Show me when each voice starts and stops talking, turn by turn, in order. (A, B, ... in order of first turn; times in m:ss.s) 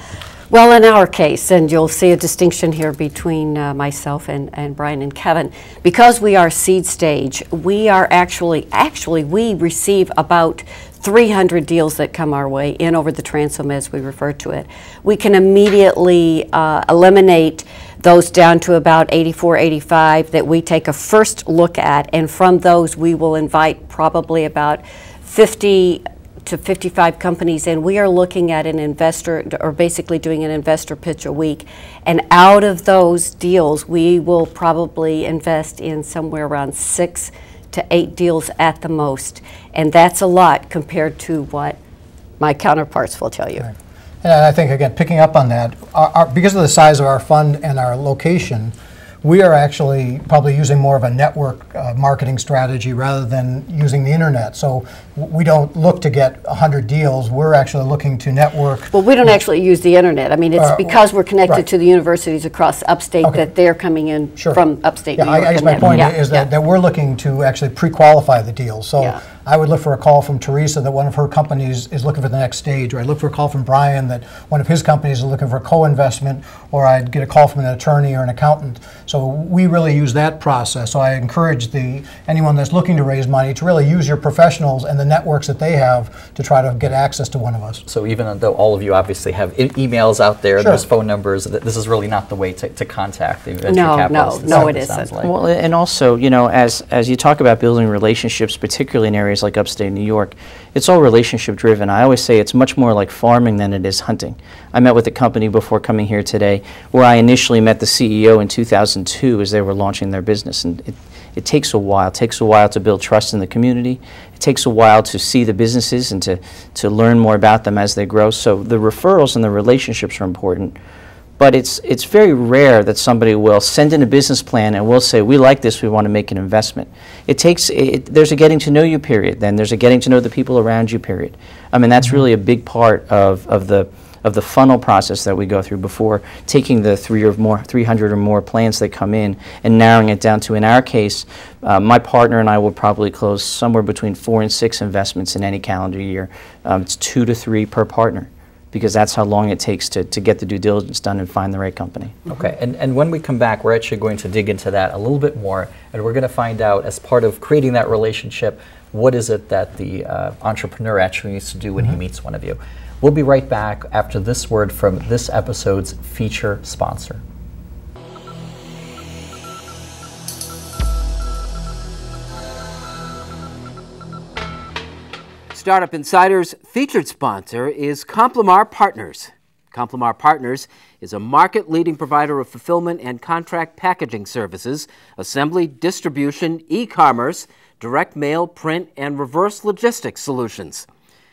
0:00.5-0:41.8 A
0:42.4-0:43.7 A
0:44.2-0:58.9 B
0:58.9-1:06.5 A
1:00.6-1:01.0 B
1:05.2-1:27.8 B
1:27.9-1:35.3 C
1:33.7-1:35.1 A
1:35.2-2:00.8 D
2:01.4-2:32.2 D
2:32.3-2:47.2 C
2:55.5-3:10.9 E